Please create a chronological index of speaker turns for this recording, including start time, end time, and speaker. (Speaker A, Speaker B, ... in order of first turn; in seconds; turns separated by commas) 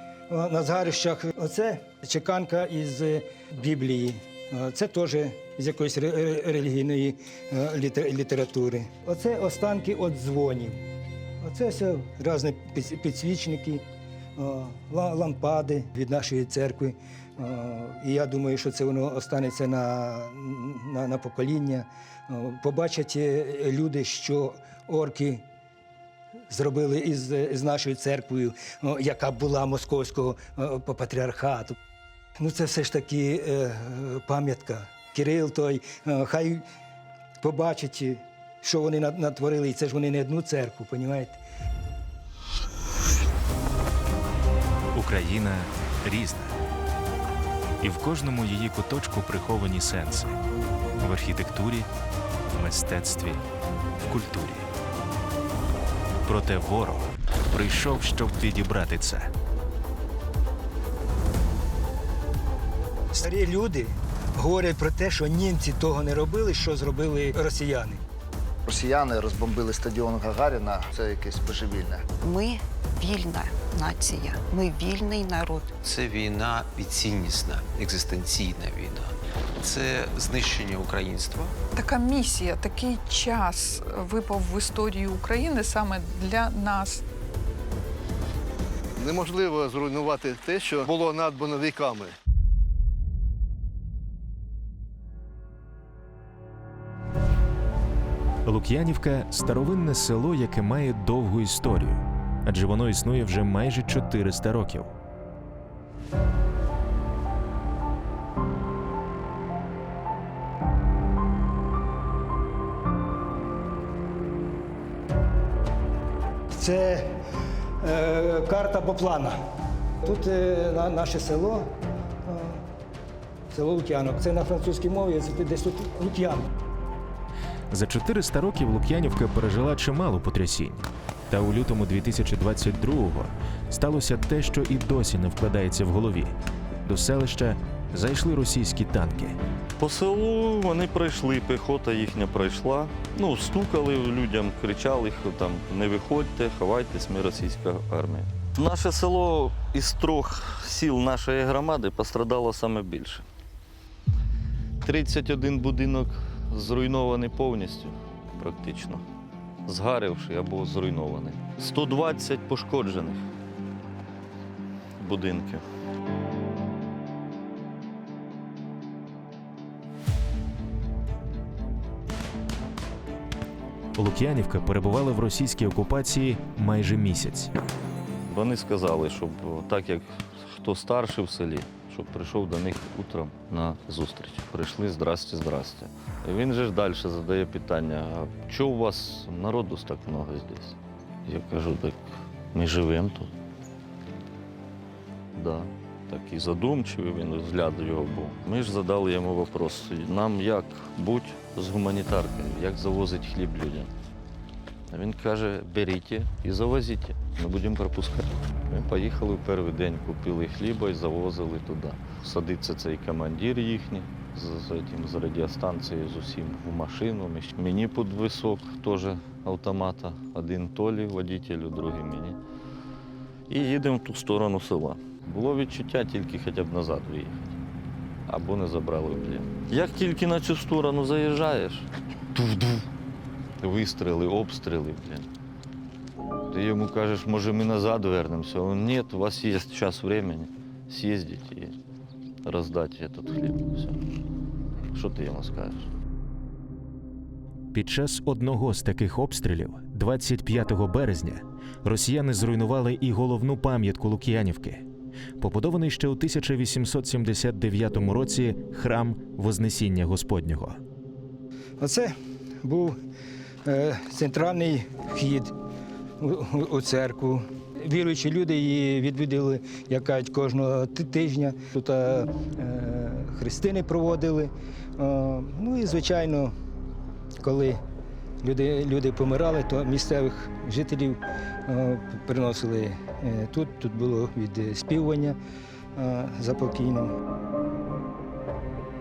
Speaker A: 0.3-10.8, Speaker A: 11.4-13.8, Speaker A: 14.3-25.4, Speaker A: 26.5-31.8, Speaker A: 32.4-36.6, Speaker A: 37.4-41.4, Speaker B: 44.9-46.5, Speaker B: 47.8-50.4, Speaker B: 51.0-51.9, Speaker B: 52.5-53.4, Speaker B: 54.0-54.6, Speaker B: 56.2-59.3, Speaker A: 63.1-68.0, Speaker C: 68.7-72.1, Speaker D: 72.2-75.7, Speaker E: 75.8-81.5, Speaker F: 81.7-87.0, Speaker G: 89.0-92.1, Speaker B: 98.4-104.9, Speaker A: 116.5-117.1, Speaker A: 117.8-119.3, Speaker A: 120.0-121.7, Speaker A: 122.2-122.6, Speaker A: 123.5-126.5, Speaker B: 127.7-136.3, Speaker B: 136.8-139.4, Speaker H: 139.8-153.2, Speaker H: 154.8-159.0, Speaker H: 159.7-163.2, Speaker H: 165.0-165.6, Speaker B: 173.9-177.5, Speaker H: 178.3-193.3, Speaker H: 195.3-203.9, Speaker H: 204.9-222.4, Speaker H: 223.5-227.6, Speaker H: 228.3-232.8, Speaker H: 233.6-235.3, Speaker H: 236.5-241.8, Speaker H: 242.4-244.0, Speaker H: 244.9-245.9, Speaker B: 247.7-254.8, Speaker B: 255.4-260.8, Speaker A: 261.8-263.0, Speaker A: 263.6-265.5, Speaker A: 266.2-276.5, Speaker A: 277.4-277.8, Speaker A: 278.4-285.4, Speaker A: 285.9-287.1